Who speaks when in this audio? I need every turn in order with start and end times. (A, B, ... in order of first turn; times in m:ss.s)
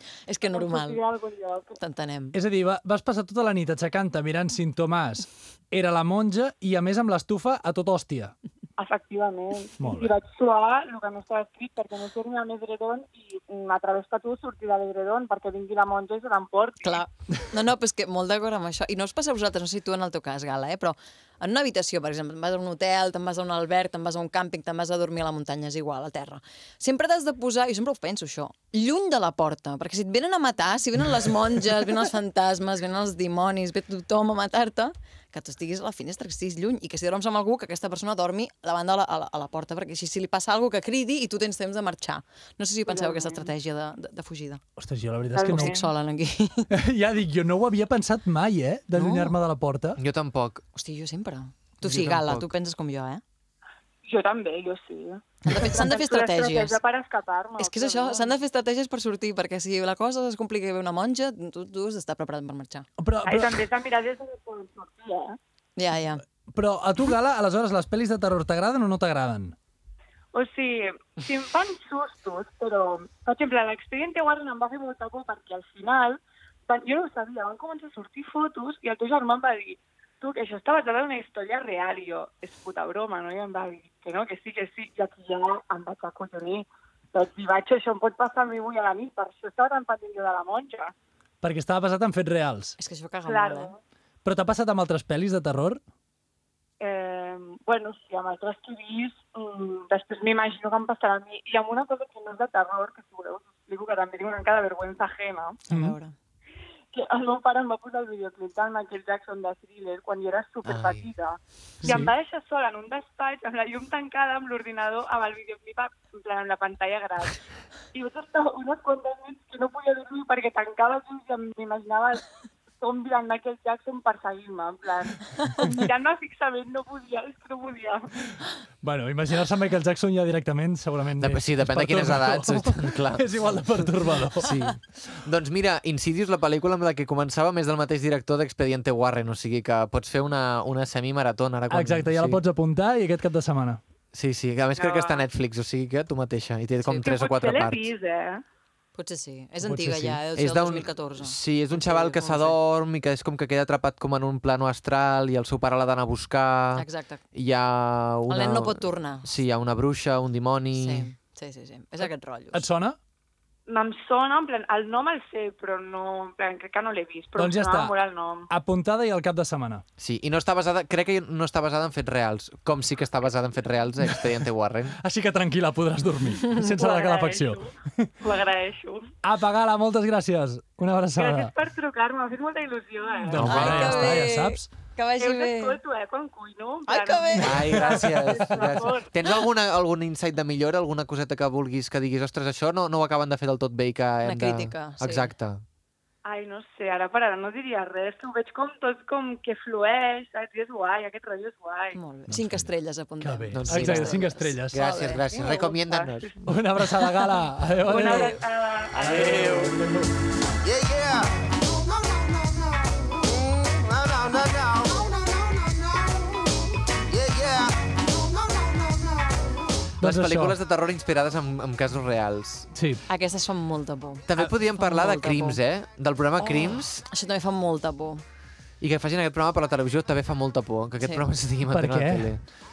0:00.3-0:01.0 A
0:00.5-0:01.8 B
0:01.8-0:02.4 A
0:02.3-0:08.4 C
0:08.8-0:17.1 B
0:09.8-0:10.2 C
0:16.8-0:44.6 A
0:42.9-0:43.5 B
0:44.8-0:45.8 C
0:45.4-0:45.9 B
0:45.4-0:46.7 A
0:46.7-0:50.0 C
0:48.9-0:49.4 A
0:50.0-0:50.6 D
0:50.8-0:53.2 A
0:51.8-0:52.5 D
0:54.0-0:58.4 B
0:55.4-0:56.8 A
0:57.6-1:02.9 A
1:03.0-1:03.6 C
1:03.2-1:05.4 B
1:05.8-1:06.2 A
1:06.5-1:09.6 C
1:10.3-1:30.9 B
1:31.4-1:32.8 C
1:32.8-1:33.7 A
1:33.3-1:33.8 B
1:34.2-1:35.8 C
1:36.8-1:45.6 B
1:45.7-1:46.2 A
1:45.7-1:46.0 C
1:46.9-1:57.4 B
1:50.6-1:51.1 D
1:51.8-1:52.1 C
1:57.9-2:02.3 B
2:02.8-2:08.1 B
2:08.8-2:14.8 C
2:11.2-2:13.7 D
2:14.4-2:22.4 D
2:21.7-2:23.8 C
2:24.1-2:27.9 D
2:24.8-2:25.2 B
2:26.8-2:27.1 A
2:27.0-2:28.4 B
2:29.0-2:32.6 A
2:29.6-2:30.2 C
2:30.4-2:41.1 D
2:36.8-2:37.2 A
2:38.3-2:39.3 A
2:40.8-2:42.7 A
2:42.5-2:43.0 C
2:43.7-2:48.5 B
2:47.4-2:47.9 C
2:48.5-2:49.8 C
2:50.0-2:55.0 D
2:55.0-2:58.1 C
2:56.6-2:59.1 B
2:59.2-3:01.5 C
3:01.2-3:03.8 B
3:03.2-3:04.7 C
3:03.3-3:04.1 D
3:03.4-3:05.8 A
3:05.2-3:09.3 B
3:06.9-3:07.8 A
3:07.4-3:15.6 D
3:07.8-3:08.8 C
3:14.2-3:15.3 A
3:16.2-3:22.0 B
3:21.9-3:25.8 A
3:22.3-3:22.7 C
3:23.2-3:24.8 C
3:23.5-3:26.3 D
3:26.4-3:28.4 C
3:27.9-3:29.4 B
3:27.9-3:28.4 A
3:28.9-3:30.1 C
3:29.1-3:29.8 D
3:30.6-3:39.6 E
3:40.0-3:40.6 C
3:40.0-3:42.7 D
3:42.7-3:43.0 C
3:43.1-3:45.6 A
3:44.3-3:47.0 D
3:46.4-3:48.2 A
3:48.8-3:52.4 D
3:51.7-3:52.3 C